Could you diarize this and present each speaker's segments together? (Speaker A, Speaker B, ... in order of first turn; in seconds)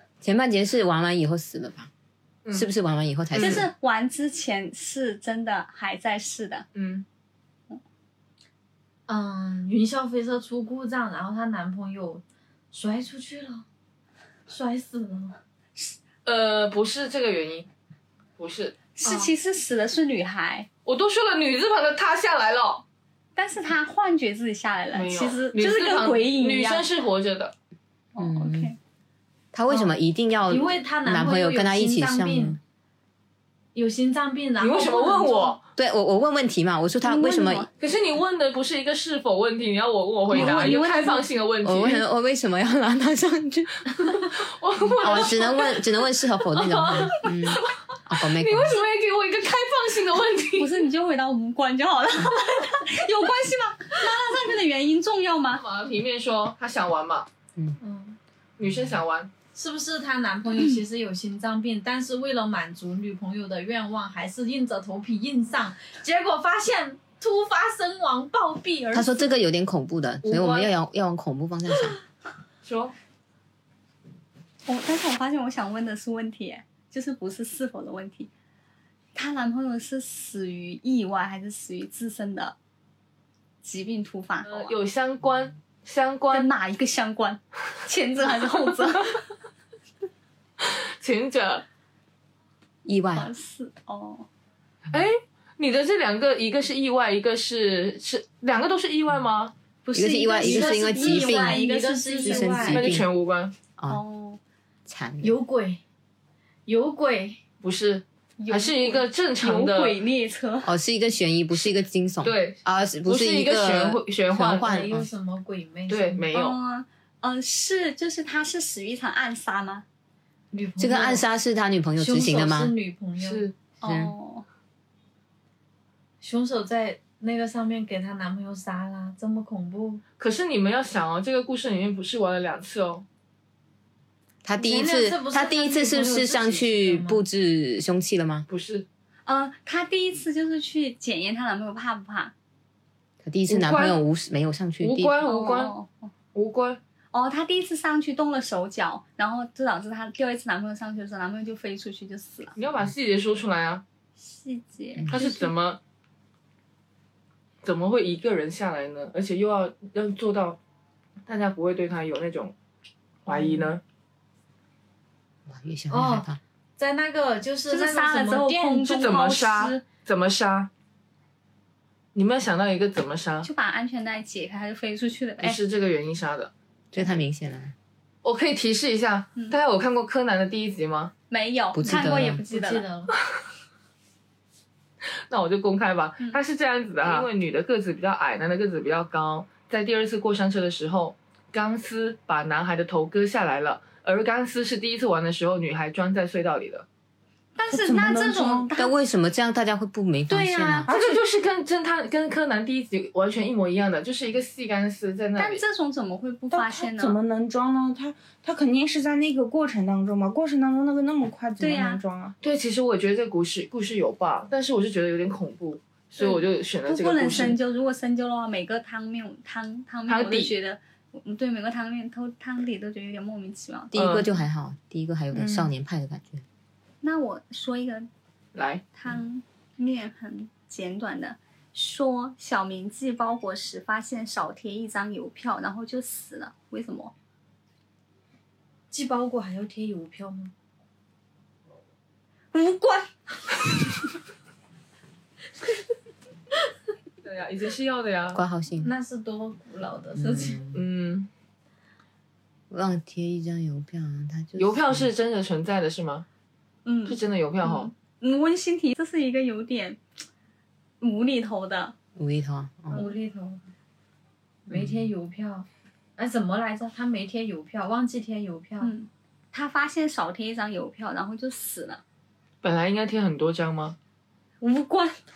Speaker A: 0.2-1.9, 2.5-3.7, 28.2-28.7, 29.5-32.6, 35.8-37.7, 40.3-40.6, 41.6-43.9, 45.0-48.8, 68.9-72.0, 92.8-93.3, 99.9-101.6, 102.2-103.1, 104.9-105.4, 110.6-115.1, 120.8-122.7, 123.8-124.1, 134.4-138.5, 143.2-145.3, 155.0-155.2, 165.5-166.4, 176.9-177.7, 181.7-182.4, 198.8-200.9, 223.9-226.4, 248.3-248.9, 250.2-250.8, 252.7-255.1, 262.2-263.0
Speaker B: 3.3-3.7, 6.8-7.0, 16.2-17.7, 18.4-18.8, 20.9-22.8, 24.9-27.5, 34.6-35.6, 37.8-42.0, 44.4-45.8, 46.5-47.6, 48.2-50.8, 55.5-57.3, 58.6-59.3, 70.2-70.7, 72.6-72.9, 84.4-86.5, 90.6-91.6, 94.9-99.5, 102.7-103.5, 107.6-110.0, 112.2-114.9, 115.9-116.6, 123.2-123.5, 130.2-133.0, 138.5-138.9, 143.5-144.0, 144.8-145.8, 146.3-146.8, 152.6-153.8, 155.1-155.8, 157.6-160.6, 161.3-162.5, 163.2-163.8, 168.8-170.7, 172.1-173.5, 175.4-176.5, 178.2-181.1, 185.3-196.9, 200.9-205.6, 212.4-217.6, 220.1-220.5, 223.9-224.3, 228.5-228.8, 247.2-248.4, 250.7-251.3, 254.6-256.2, 257.0-257.9, 272.6-274.0
Speaker C: 3.4-6.7, 19.0-20.7, 23.4-26.9, 28.1-28.8, 37.0-37.7, 40.3-41.3, 50.6-55.6, 74.7-78.3, 79.1-82.5, 83.6-84.7, 86.3-89.2, 93.1-94.3, 99.8-102.8, 103.9-104.4, 108.4-110.7, 116.3-119.8, 123.8-124.5, 139.2-142.3, 145.2-146.1, 147.1-152.5, 154.2-155.5, 167.7-169.8, 173.4-175.6, 181.3-182.8, 197.6-198.9, 200.3-200.9, 205.4-207.2, 211.6-212.0, 216.2-224.2, 227.0-228.1, 228.9-237.1, 242.5-243.1, 256.9-260.0, 261.0-261.9, 268.8-272.0, 274.6-275.2
Speaker D: 9.1-13.6, 14.5-15.4, 19.0-19.3, 30.5-32.6, 33.8-35.6, 57.8-58.2, 59.5-69.3, 100.3-103.0, 105.2-105.8, 106.7-107.4, 114.6-116.2, 120.5-121.2, 122.0-123.5, 126.2-130.0, 134.6-137.2, 165.9-169.0, 181.9-183.1, 238.9-240.5, 248.8-250.6, 262.9-263.6, 264.7-268.9
Speaker E: 197.7-198.7, 200.9-201.2, 206.5-212.3, 225.3-225.7